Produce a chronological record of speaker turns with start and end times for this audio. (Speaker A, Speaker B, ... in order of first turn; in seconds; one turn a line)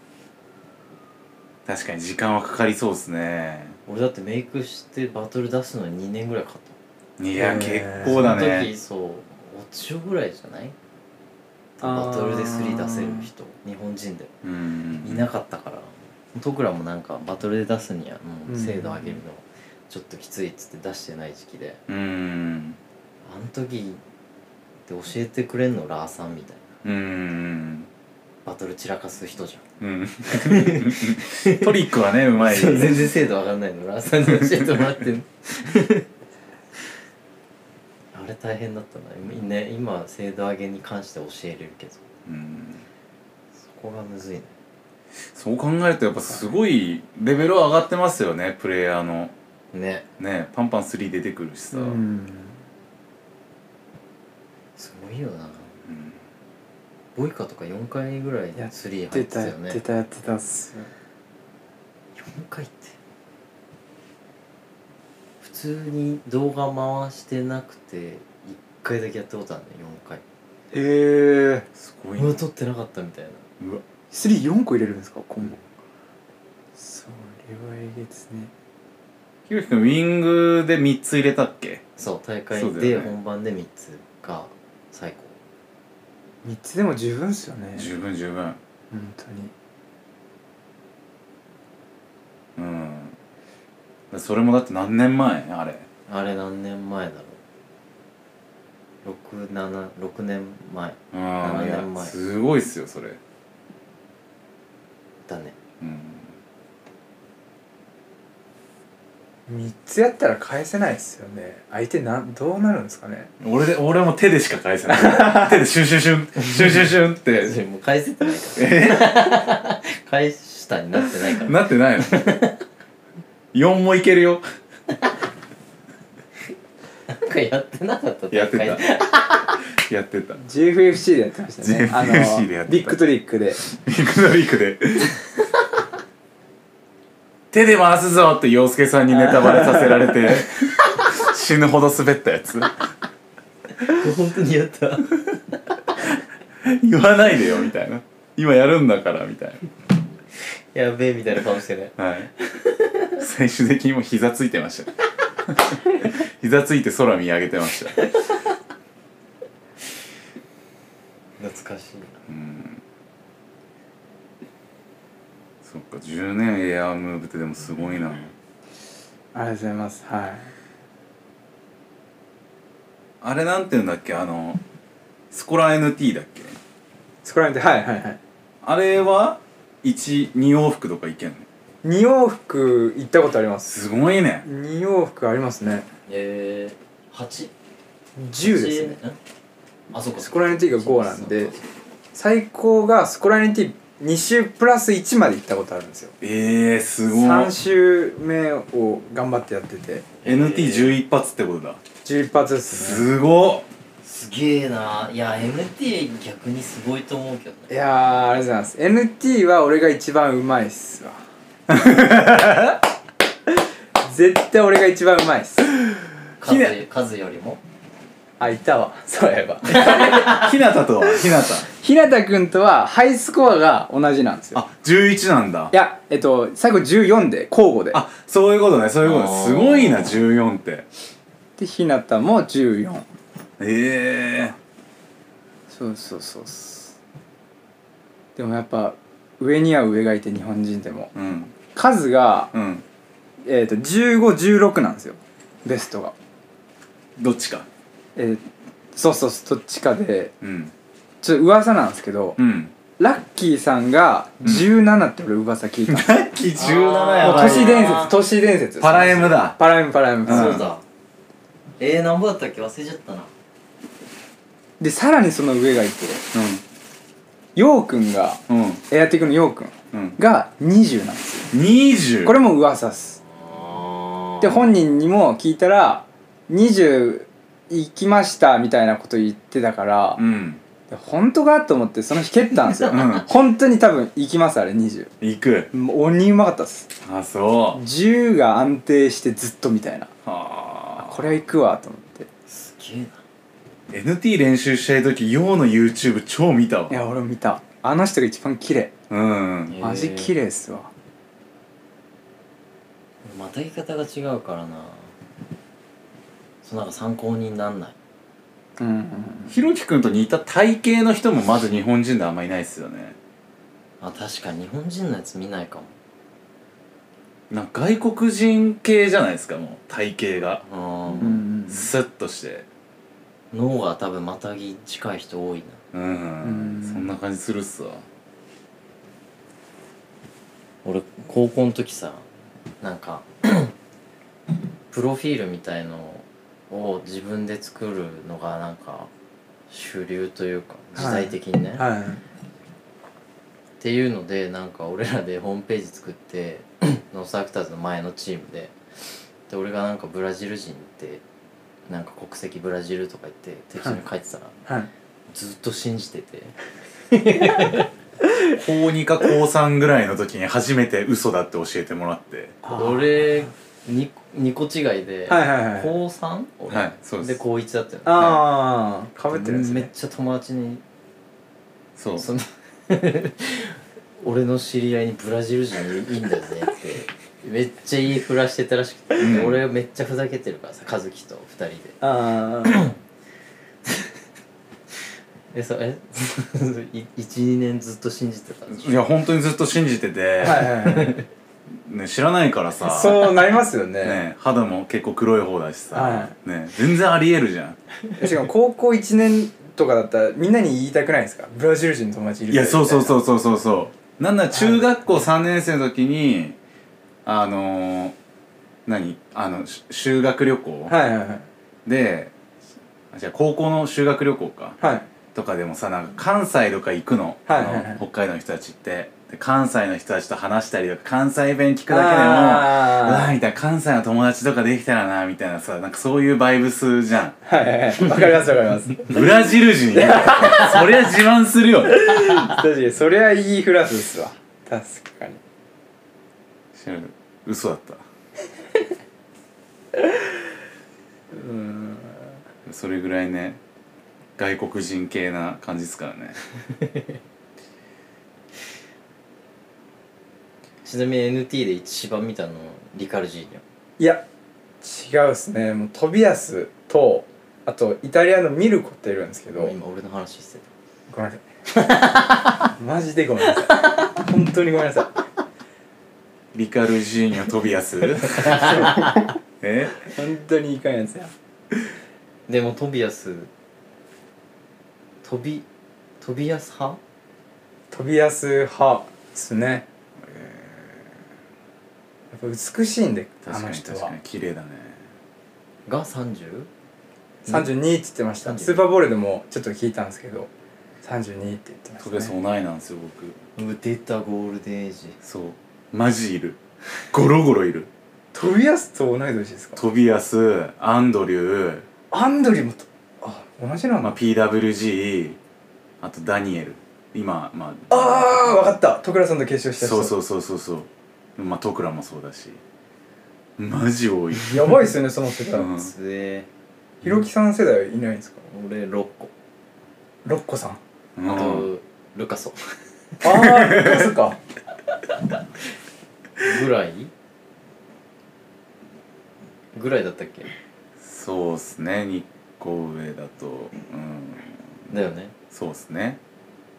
Speaker A: 1.6-3.8
Speaker B: 3.9-6.8
Speaker A: 7.2-8.7
Speaker C: 7.3-8.3
Speaker B: 8.0-10.8
Speaker B: 11.8-14.3
Speaker C: 11.8-13.3
Speaker A: 14.4-15.2
Speaker B: 15.0-21.8
Speaker C: 18.5-19.2
Speaker A: 21.9-22.8
Speaker B: 23.2-24.0
Speaker B: 24.9-26.7
Speaker A: 26.8-27.9
Speaker B: 28.4-29.6
Speaker A: 29.8-33.1
Speaker B: 30.3-31.8
Speaker B: 32.4-36.1
Speaker A: 34.3-34.9
Speaker B: 38.1-42.0
Speaker A: 42.2-42.9
Speaker B: 43.7-44.5
Speaker A: 45.3-49.3
Speaker B: 49.7-50.0
Speaker A: 50.2-52.0
Speaker C: 51.7-52.6
Speaker B: 54.8-55.7
Speaker A: 55.9-56.2
Speaker B: 57.1-59.8
Speaker C: 58.6-60.9
Speaker B: 62.1-63.0
Speaker B: 65.4-70.2
Speaker C: 70.7-71.7
Speaker A: 71.7-72.4
Speaker B: 72.2-73.4
Speaker C: 74.1-75.6
Speaker C: 76.8-78.5
Speaker A: 79.5-81.8
Speaker B: 82.0-85.4
Speaker A: 82.5-83.1
Speaker C: 86.4-87.9
Speaker A: 87.8-88.6
Speaker C: 88.9-89.5
Speaker A: 92.6-93.2
Speaker A: 94.1-95.9
Speaker B: 96.1-97.4
Speaker B: 99.0-102.1
Speaker A: 101.1-103.2
Speaker B: 105.3-105.6
Speaker A: 105.8-106.3
Speaker C: 109.5-113.3
Speaker A: 113.4-117.5
Speaker C: 114.9-115.6
Speaker B: 116.4-122.6
Speaker A: 118.6-119.3
Speaker A: 121.4-122.3
Speaker A: 123.5-124.4
Speaker B: 127.1-129.6
Speaker A: 128.3-128.8
Speaker A: 129.7-130.4
Speaker C: 130.4-133.6
Speaker A: 131.6-133.0
Speaker A: 133.6-135.2
Speaker A: 137.5-142.8
Speaker B: 143.8-145.2
Speaker A: 146.6-149.6
Speaker B: 150.7-153.2
Speaker A: 152.0-152.3
Speaker A: 153.2-154.9
Speaker A: 155.4-158.0
Speaker B: 161.4-162.2
Speaker A: 162.3-162.8
Speaker A: 165.6-168.3
Speaker C: 169.3-170.5
Speaker A: 173.2-174.6
Speaker A: 175.3-176.6
Speaker C: 177.2-178.2
Speaker A: 178.6-181.5
Speaker C: 181.8-183.7
Speaker A: 183.6-184.4
Speaker C: 184.4-185.9
Speaker B: 186.1-187.5
Speaker C: 188.2-189.0
Speaker B: 188.4-189.2
Speaker B: 189.9-191.7
Speaker C: 190.2-191.5
Speaker C: 192.1-196.1
Speaker A: 196.2-197.5
Speaker C: 197.1-200.1
Speaker B: 200.2-200.9
Speaker A: 200.2-201.8
Speaker C: 202.1-203.1
Speaker A: 202.7-203.7
Speaker B: 204.0-207.7
Speaker C: 207.7-211.2
Speaker A: 211.7-212.8
Speaker C: 214.0-215.8
Speaker B: 216.4-217.6
Speaker C: 218.4-220.4
Speaker A: 219.8-221.7
Speaker C: 221.7-224.6
Speaker A: 224.5-225.7
Speaker C: 225.7-228.0
Speaker A: 227.9-230.9
Speaker B: 229.0-230.2
Speaker C: 231.6-233.1
Speaker A: 233.6-234.6
Speaker C: 235.7-236.9
Speaker C: 238.4-241.1
Speaker A: 241.1-241.5
Speaker C: 241.7-242.5
Speaker A: 242.5-242.8
Speaker C: 243.4-246.1
Speaker A: 247.2-247.7
Speaker C: 248.2-248.4
Speaker C: 248.9-250.3
Speaker A: 250.4-250.7
Speaker C: 251.2-252.4
Speaker A: 252.4-252.7
Speaker C: 253.0-256.1
Speaker A: 255.9-258.0
Speaker B: 256.5-258.2
Speaker C: 257.2-260.6
Speaker A: 258.8-259.6
Speaker A: 260.2-260.7
Speaker B: 260.2-260.8
Speaker B: 261.8-263.3
Speaker C: 264.8-266.2
Speaker A: 266.3-266.6
Speaker C: 267.6-271.5
Speaker A: 268.5-268.8
Speaker A: 269.9-270.2
Speaker A: 271.5-272.4
Speaker C: 272.2-273.2
Speaker B: 273.4-274.5
Speaker C: 274.4-280.2
Speaker A: 280.1-280.6
Speaker C: 280.9-285.1
Speaker A: 282.9-283.3
Speaker A: 285.2-285.7
Speaker C: 285.7-286.9
Speaker A: 287.0-287.8
Speaker C: 287.7-290.1
Speaker A: 290.2-291.2
Speaker C: 291.0-292.3
Speaker B: 292.5-293.2
Speaker A: 293.9-297.0
Speaker C: 296.9-298.9
Speaker A: 299.1-299.8
Speaker B: 299.7-300.3
Speaker C: 299.8-300.9
Speaker B: 303.2-305.1
Speaker B: 306.6-307.9
Speaker C: 308.8-309.5
Speaker A: 309.5-313.2
Speaker B: 314.0-315.9
Speaker A: 317.5-320.6
Speaker B: 320.6-321.4
Speaker C: 321.2-321.9
Speaker A: 321.7-322.6
Speaker B: 323.5-325.8
Speaker A: 325.9-328.1
Speaker C: 326.4-327.1
Speaker B: 330.9-332.2
Speaker B: 332.8-333.7
Speaker B: 334.9-339.1
Speaker B: 339.7-341.9
Speaker C: 340.9-342.2
Speaker B: 343.8-348.8
Speaker B: 349.5-351.2
Speaker B: 351.9-354.6
Speaker B: 355.3-356.6
Speaker B: 357.1-357.9
Speaker A: 358.6-362.6
Speaker C: 362.6-363.4
Speaker B: 362.7-368.4
Speaker C: 365.3-365.9
Speaker A: 366.7-367.4
Speaker C: 368.1-369.9
Speaker B: 369.4-370.8
Speaker A: 371.9-372.3
Speaker B: 372.2-382.0
Speaker A: 379.2-379.6
Speaker C: 382.0-382.9
Speaker B: 382.6-382.9
Speaker B: 385.5-389.1
Speaker A: 388.7-390.9
Speaker C: 390.4-391.2
Speaker B: 390.9-391.2
Speaker A: 391.7-397.8
Speaker C: 392.8-394.2
Speaker C: 395.9-396.3
Speaker C: 398.2-403.1
Speaker A: 402.5-406.6
Speaker C: 404.5-404.9
Speaker A: 407.2-408.1
Speaker A: 408.9-410.9
Speaker C: 410.9-411.5
Speaker A: 411.9-412.3
Speaker A: 413.1-414.8
Speaker C: 414.8-415.1
Speaker A: 415.3-427.4
Speaker C: 417.5-418.0
Speaker C: 421.9-423.4
Speaker C: 427.4-429.3
Speaker A: 429.1-432.4
Speaker C: 429.9-430.9
Speaker C: 431.9-435.4
Speaker A: 436.7-438.0
Speaker C: 441.3-442.3
Speaker A: 442.6-443.6
Speaker A: 444.4-446.4
Speaker B: 450.8-453.6
Speaker C: 454.0-454.2
Speaker C: 454.8-459.7
Speaker B: 459.5-460.7
Speaker C: 461.1-461.4
Speaker B: 461.8-462.4
Speaker C: 462.8-465.1
Speaker A: 466.5-468.9
Speaker C: 468.4-469.2
Speaker B: 468.4-468.9
Speaker A: 469.6-470.0
Speaker C: 470.0-471.3
Speaker B: 472.5-473.5
Speaker B: 475.2-475.6
Speaker B: 476.2-477.0
Speaker C: 477.9-479.9
Speaker A: 480.2-481.1
Speaker C: 482.3-484.1
Speaker A: 483.4-485.1
Speaker B: 485.9-486.7
Speaker C: 487.5-490.5
Speaker B: 488.4-488.9
Speaker C: 491.0-492.3
Speaker A: 492.0-493.4
Speaker B: 493.6-495.2
Speaker A: 495.2-496.6
Speaker A: 497.1-497.9
Speaker C: 498.3-499.8
Speaker A: 499.8-501.9
Speaker C: 502.1-504.1
Speaker A: 504.0-505.4
Speaker A: 506.0-508.8
Speaker C: 507.9-510.1
Speaker A: 509.8-512.6
Speaker A: 513.6-514.8
Speaker C: 514.4-515.7
Speaker A: 515.5-515.9
Speaker B: 515.6-516.5
Speaker C: 517.0-518.5
Speaker B: 518.5-519.3
Speaker C: 520.2-520.8
Speaker A: 521.1-521.7
Speaker B: 521.2-522.8
Speaker C: 523.2-524.4
Speaker A: 523.6-524.0
Speaker B: 526.4-527.1
Speaker B: 529.7-530.5
Speaker A: 531.0-534.8
Speaker B: 534.9-535.3
Speaker A: 535.5-536.2